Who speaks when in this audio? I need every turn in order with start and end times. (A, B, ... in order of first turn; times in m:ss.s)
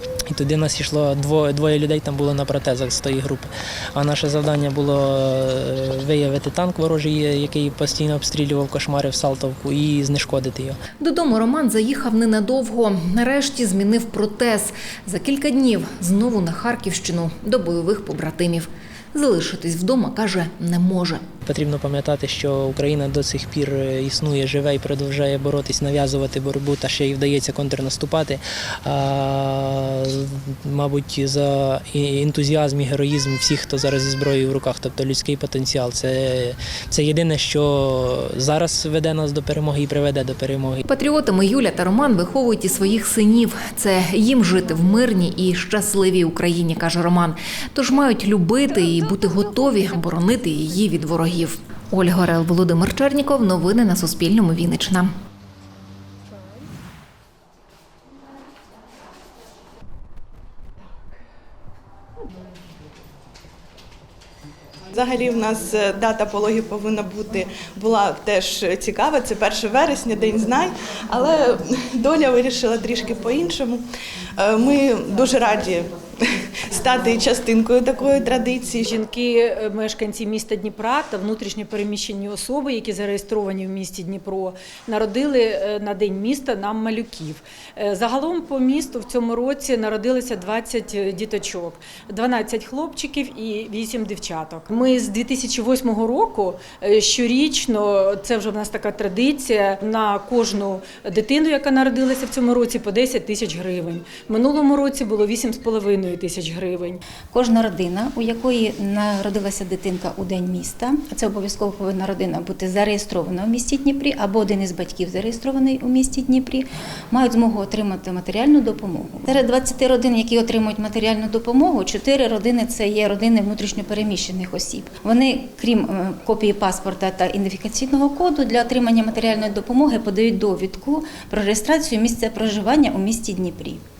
0:00.3-0:10.8 A
0:11.0-0:21.2 B
0:21.4-0:40.8 A
0:40.8-0:55.1 B
1:04.9-1:13.8 C
1:14.4-1:15.9 C
1:16.7-1:18.9 C
1:18.8-1:47.0 D
1:47.3-2:13.8 E